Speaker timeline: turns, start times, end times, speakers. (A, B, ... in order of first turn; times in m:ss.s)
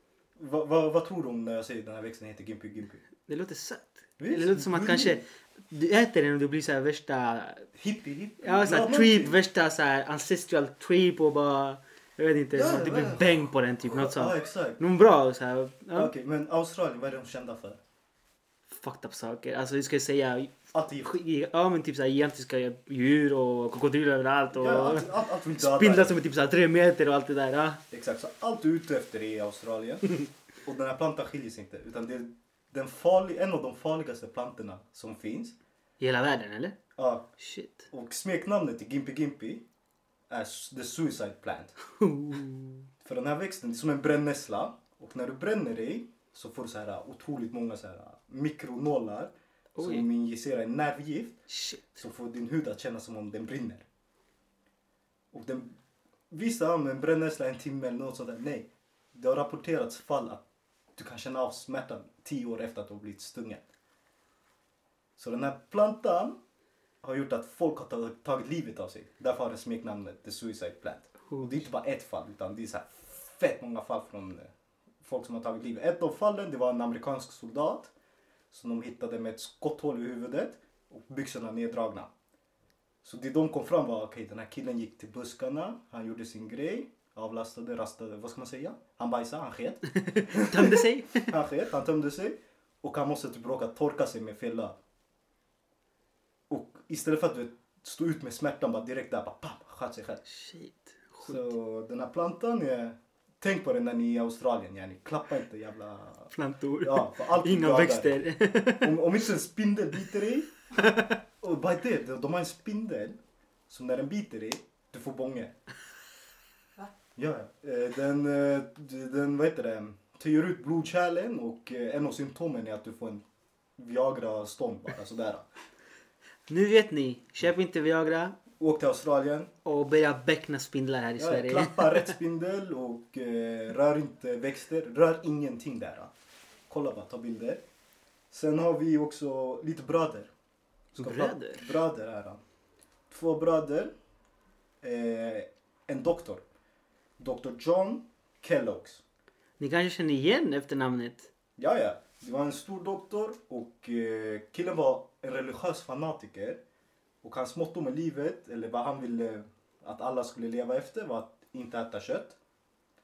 0:00.4-0:03.0 A
0:03.3-0:07.7 B
0:04.2-0:05.2 A
0:07.8-0:09.4 A
0:08.4-0:16.1 B
0:12.5-0:14.8 A
0:15.9-0:17.8 A
0:18.7-0:27.8 B
0:20.7-0:21.2 A
0:24.5-0:26.2 A
0:27.9-0:30.1 A
0:30.6-0:35.6 A
0:36.0-0:36.8 B
0:37.0-0:37.3 A
0:37.4-0:37.9 B
0:37.9-0:39.6 A
0:40.3-0:41.8 A
0:41.9-0:42.9 B
0:43.0-0:51.4 A
0:49.8-0:50.1 B
0:51.5-0:51.9 B
0:52.0-0:53.9 A
0:55.3-0:55.8 A
0:56.3-1:00.4 A
1:01.0-1:03.7 A
1:05.2-1:06.4 A
1:07.0-1:17.9 A
1:11.3-1:11.6 B
1:18.5-1:22.1 A
1:23.0-1:34.8 A
1:29.9-1:31.4 B
1:36.5-1:40.2 A
1:40.3-1:41.5 B
1:41.2-1:48.2 A
1:46.3-1:49.0 B
1:48.8-1:50.6 A
1:50.8-1:51.2 B
1:51.4-1:55.6 A
1:57.2-2:03.2 A
2:03.8-2:05.5 A
2:06.5-2:08.4 B
2:08.6-2:09.5 A
2:09.6-2:12.2 B
2:11.2-2:16.1 A
2:16.7-2:17.6 A
2:18.3-2:20.3 A
2:20.9-2:22.4 A
2:21.0-2:21.7 B
2:23.1-2:23.9 A
2:24.8-2:26.4 A
2:27.2-2:29.0 A
2:29.6-2:31.3 B
2:31.6-2:36.6 A
2:37.2-2:42.4 A